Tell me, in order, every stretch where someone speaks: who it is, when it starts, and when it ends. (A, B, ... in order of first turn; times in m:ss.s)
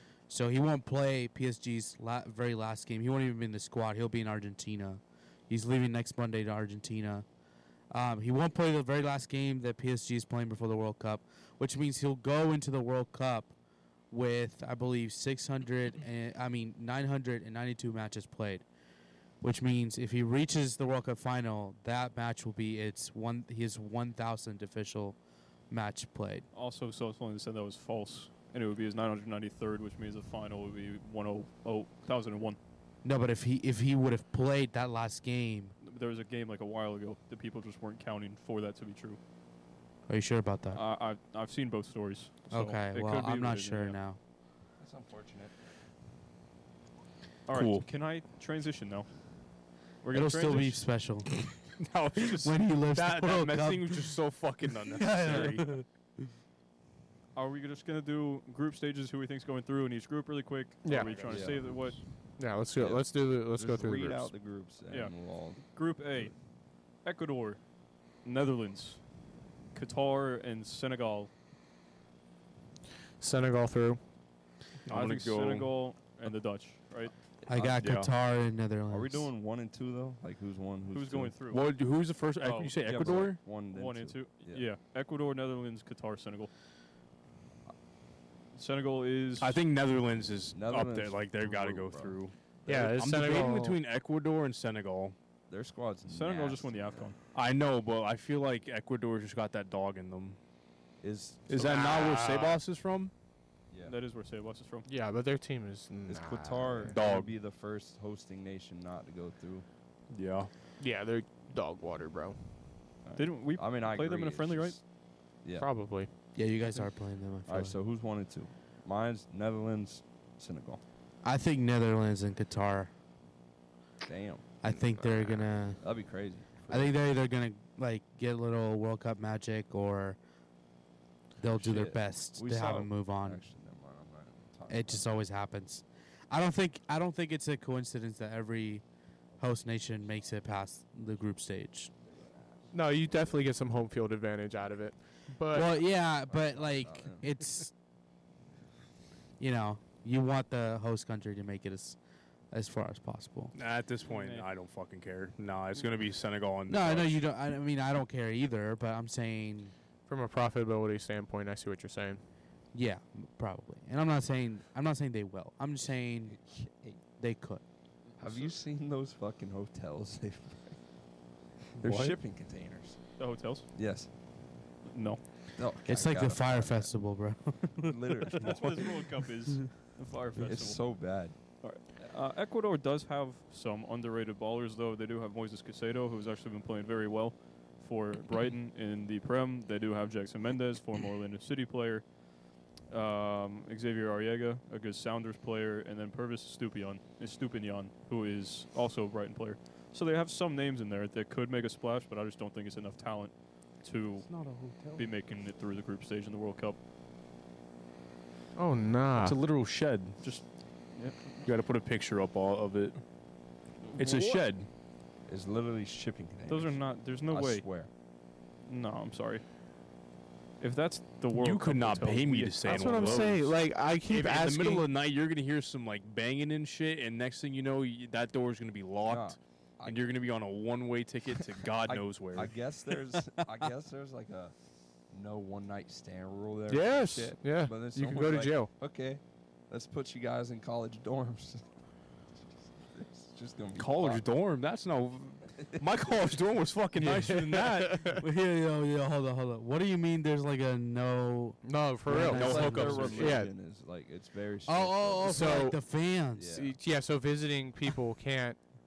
0:00.3-0:07.2 A
0:07.9-0:13.5 A
0:14.1-0:18.6 A
0:19.4-0:25.2 A
0:25.7-0:26.4 A
0:26.5-0:32.6 B
0:33.0-0:35.7 A
0:35.8-0:39.2 B
0:40.1-0:40.8 A
0:40.7-0:44.0 B
0:42.5-0:44.2 A
0:44.8-0:45.5 C
0:47.5-0:49.1 B
0:47.5-0:47.8 D
0:50.0-0:50.8 B
0:50.1-0:54.1 A
0:51.8-0:55.8 D
0:54.9-0:55.8 A
0:57.3-1:02.0 B
1:00.8-1:01.3 E
1:00.9-1:01.6 D
1:01.2-1:01.6 C
1:02.4-1:04.3 E
1:02.7-1:06.3 C
1:04.9-1:06.4 B
1:07.0-1:07.6 B
1:08.2-1:09.0 B
1:09.7-1:11.3 B
1:13.2-1:14.0 E
1:14.8-1:15.7 D
1:14.9-1:17.1 B
1:17.4-1:17.8 C
1:17.5-1:19.3 A
1:17.7-1:18.1 D
1:18.9-1:21.4 C
1:20.9-1:21.6 B
1:21.5-1:23.4 D
1:22.4-1:26.5 B
1:22.8-1:24.7 C
1:28.5-1:29.6 B
1:29.4-1:35.2 D
1:30.5-1:32.9 C
1:32.7-1:33.8 E
1:35.5-1:37.1 C
1:36.0-1:37.2 B
1:37.3-1:40.4 D
1:41.0-1:41.5 C
1:41.5-1:43.1 D
1:41.5-1:42.6 E
1:43.7-1:44.0 C
1:43.8-1:44.9 B
1:44.9-1:47.0 E
1:46.1-1:49.6 C
1:46.9-1:47.4 D
1:50.1-1:50.5 D
1:50.8-1:52.4 E
1:53.0-1:54.8 C
1:53.2-1:54.8 B
1:55.4-1:55.7 C
1:55.6-1:56.1 E
1:56.3-1:57.8 A
1:57.4-2:00.8 C
2:01.2-2:02.9 A
2:04.0-2:04.5 C
2:04.6-2:05.8 A
2:04.6-2:05.5 E
2:05.8-2:06.9 C
2:06.7-2:10.2 A
2:11.4-2:13.4 A
2:11.5-2:15.1 C
2:14.7-2:18.8 A
2:19.4-2:21.9 A
2:22.1-2:22.7 C
2:22.7-2:25.7 E
2:25.5-2:27.7 A
2:25.8-2:27.3 C
2:29.4-2:32.0 A
2:32.5-2:33.5 A
2:33.5-2:37.2 D
2:34.0-2:34.5 B
2:36.7-2:39.7 A
2:40.1-2:42.2 E
2:42.7-2:46.4 A
2:46.2-2:47.0 C
2:47.2-2:47.6 A
2:48.2-2:50.8 C
2:48.2-2:48.5 B
2:51.8-2:54.1 C
2:51.8-2:52.1 D
2:53.2-2:53.7 B
2:54.8-2:55.2 B
2:55.6-2:57.0 C
2:55.8-2:57.9 A
2:57.7-2:59.0 C
2:58.4-3:01.0 B
3:00.3-3:01.4 C
3:01.6-3:12.1 B
3:12.9-3:26.8 B
3:24.2-3:25.1 A
3:28.5-3:29.4 E
3:29.2-3:30.2 D
3:30.2-3:31.2 B
3:31.4-3:33.0 D
3:33.8-3:34.4 B
3:34.0-3:34.7 D
3:35.2-3:37.9 C
3:36.5-3:37.7 B
3:38.6-3:39.4 B
3:40.6-3:43.2 B
3:41.4-3:52.5 D
3:42.6-3:44.9 E
3:49.0-3:50.1 C
3:51.8-3:54.5 C
3:53.1-3:53.7 A
3:55.1-4:01.7 C
3:56.7-3:58.7 E
4:02.8-4:04.2 C
4:03.8-4:08.2 D
4:07.0-4:08.2 E
4:08.2-4:13.4 A
4:11.6-4:13.5 E
4:12.2-4:15.8 C
4:12.3-4:13.4 D
4:14.6-4:16.5 A
4:15.2-4:15.8 E
4:16.3-4:16.8 C
4:16.5-4:18.6 E